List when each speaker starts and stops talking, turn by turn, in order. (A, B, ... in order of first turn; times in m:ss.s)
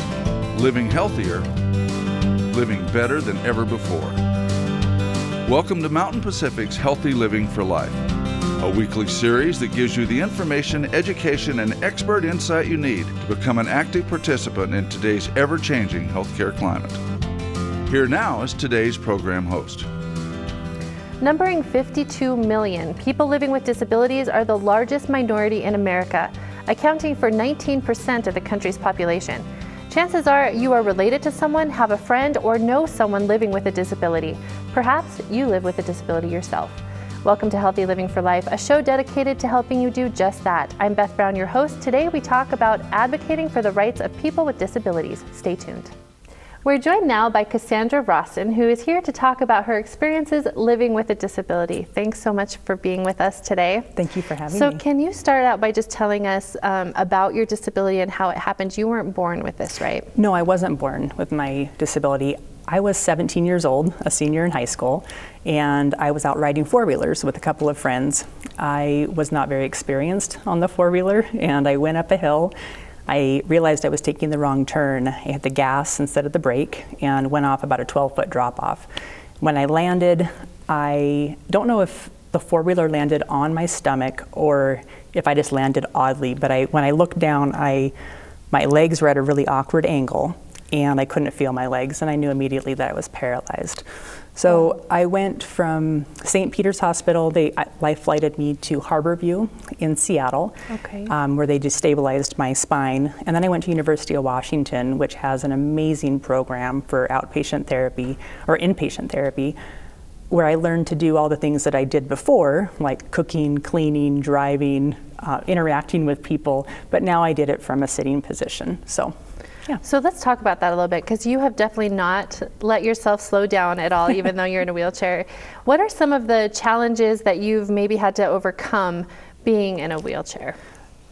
0:00.5-0:01.5 A
0:02.5-0:04.2 A
0:05.4-0:08.0 A
0:08.6-0:17.0 A
0:17.9-0:19.9 A
0:21.2-0:45.9 B
0:46.6-0:53.9 B
0:54.0-0:54.8 C
0:54.5-1:00.1 B
1:00.1-1:12.5 C
1:13.1-1:18.9 C
1:19.4-1:27.9 C
1:28.5-1:33.8 C
1:34.4-1:40.6 C
1:40.7-1:41.1 B
1:41.1-1:49.6 C
1:50.3-1:59.1 C
1:59.8-2:10.6 B